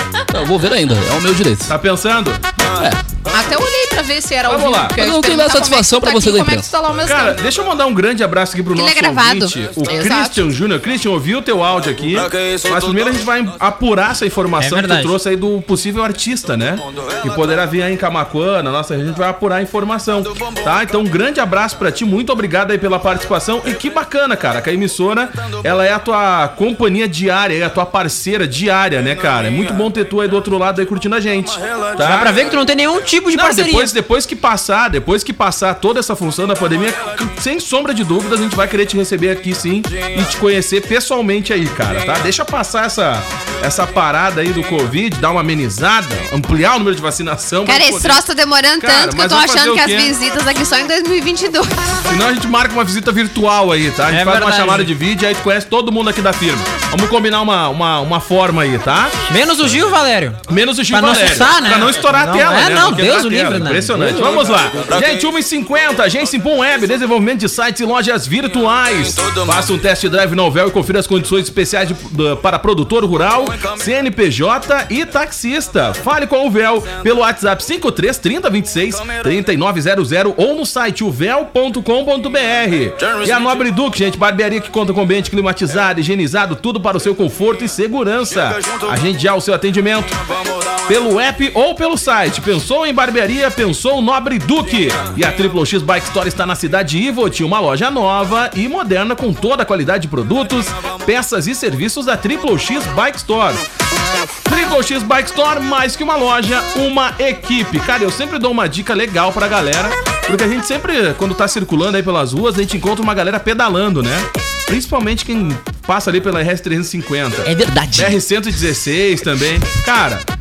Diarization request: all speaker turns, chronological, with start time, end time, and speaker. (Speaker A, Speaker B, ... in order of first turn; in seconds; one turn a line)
Speaker A: 0.3-1.7
Speaker B: 1.7-2.4
Speaker A: 2.7-3.0
Speaker C: 3.3-7.4
Speaker B: 4.5-5.0
Speaker A: 4.9-6.7
Speaker B: 7.0-32.4
Speaker D: 8.7-9.5
Speaker C: 9.9-10.4
Speaker E: 14.6-15.2
Speaker E: 32.0-33.9
Speaker B: 33.3-48.2
Speaker D: 47.6-52.0
Speaker B: 48.8-50.1
Speaker B: 52.1-59.1
Speaker E: 54.1-54.9
Speaker E: 59.3-64.5
Speaker B: 60.5-90.2
Speaker B: 90.9-103.6
Speaker B: 104.5-120.2
Speaker A: 117.4-118.2